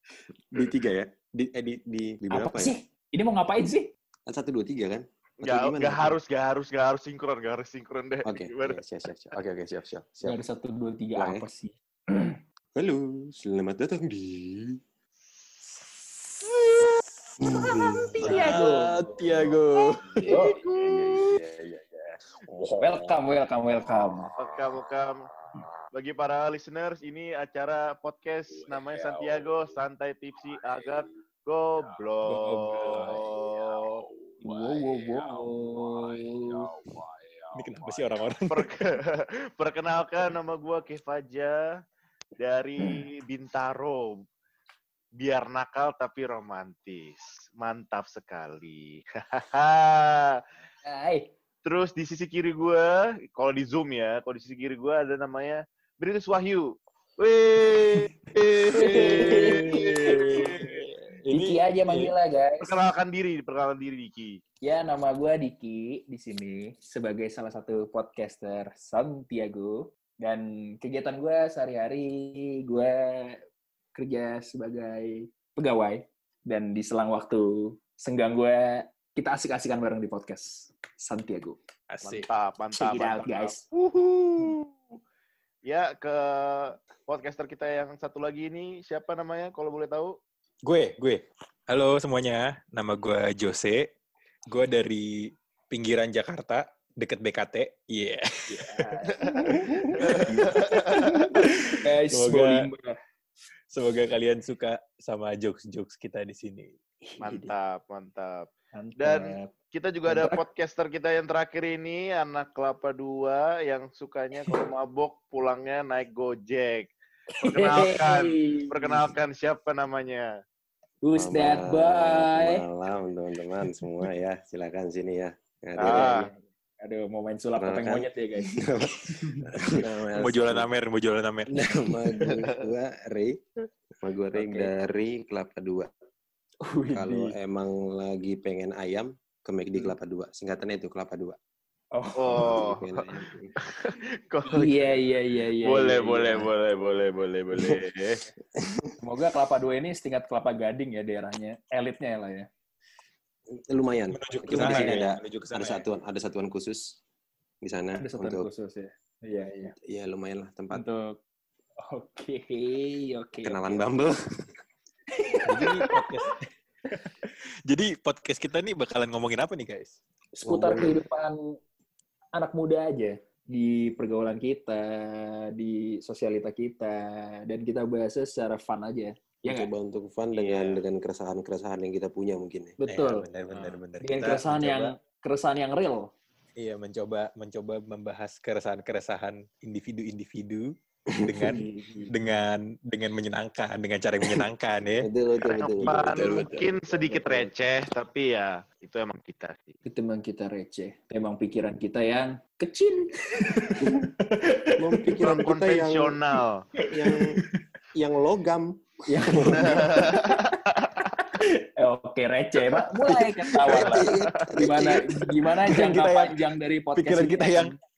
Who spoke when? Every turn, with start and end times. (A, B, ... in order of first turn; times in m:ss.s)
0:00.5-0:02.7 A
0:02.3-0:03.9 B
0:04.3-0:06.2 A
0:05.4-0:08.8 C
0:08.2-0:10.4 A
0:10.2-0:12.4 B
0:11.2-0:11.5 A
0:12.8-0:14.8 A
0:17.4-0:19.6 A
0:17.9-0:20.5 D
0:18.0-0:19.1 B
0:20.2-0:23.1 A
0:20.2-0:20.6 B
0:22.8-0:24.3 B
0:24.4-0:25.2 C
0:25.9-0:33.9 C
0:29.0-0:29.3 A
0:32.3-0:33.2 D
0:32.4-0:33.2 B
0:34.4-0:36.7 B
0:35.2-0:35.4 D
0:37.5-0:38.7 D
0:38.5-0:41.6 C
0:42.4-0:44.2 C
0:42.8-0:43.0 B
0:45.2-0:50.4 C
0:50.8-0:51.3 B
0:51.6-1:00.7 C
0:58.6-1:02.1 D
0:58.7-1:02.8 B
1:02.6-1:04.4 C
1:04.6-1:13.4 B
1:14.0-1:21.6 B
1:21.9-1:22.3 D
1:22.0-1:24.7 C
1:22.8-1:23.7 B
1:25.6-1:30.2 C
1:30.6-1:33.9 D
1:34.5-1:38.9 D
1:38.5-1:43.0 B
1:39.2-1:41.4 C
1:39.8-1:42.7 D
1:43.7-1:46.8 D
1:47.0-1:47.5 B
1:47.2-2:00.3 C
1:48.7-1:49.5 B
1:50.1-1:50.4 B
1:57.4-1:59.1 B
2:01.0-2:02.6 B
2:01.2-2:06.2 A
2:05.8-2:06.3 C
2:05.8-2:09.6 B
2:07.6-2:10.7 A
2:10.2-2:11.8 D
2:11.5-2:13.4 A
2:14.0-2:15.9 A
2:14.3-2:14.7 B
2:16.6-2:17.4 B
2:16.9-2:21.4 A
2:21.9-2:22.6 B
2:22.2-2:23.0 C
2:22.3-2:23.5 A
2:23.6-2:24.9 C
2:24.5-2:26.5 B
2:25.6-2:28.2 C
2:27.5-2:27.8 A
2:28.5-2:29.0 A
2:29.0-2:32.5 B
2:33.5-2:37.0 A
2:34.1-2:35.8 D
2:34.5-2:35.0 B
2:37.6-2:38.5 A
2:38.0-2:39.7 B
2:39.6-2:40.8 A
2:40.7-2:41.2 B
2:41.8-2:43.8 B
2:43.4-2:44.5 A
2:45.1-2:46.1 B
2:45.5-2:46.5 D
2:47.3-2:50.0 D
2:50.4-2:51.6 B
2:50.4-2:51.0 A
2:52.3-2:59.7 B
2:59.4-3:02.8 A
3:00.3-3:00.8 C
3:02.8-3:03.3 B
3:02.9-3:04.9 D
3:04.0-3:06.1 B
3:06.6-3:16.0 D
3:11.1-3:12.1 A
3:11.7-3:12.1 B
3:15.0-3:17.5 A
3:15.8-3:19.8 C
3:16.1-3:16.4 B
3:19.9-3:25.1 B
3:23.8-3:24.1 A
3:24.8-3:26.2 A
3:25.2-3:26.7 C
3:26.8-3:27.6 B
3:26.9-3:27.4 A
3:28.0-3:30.1 A
3:29.1-3:30.3 B
3:29.6-3:30.9 C
3:31.2-3:37.8 B
3:33.7-3:35.4 A
3:34.1-3:34.4 C
3:35.6-3:37.8 D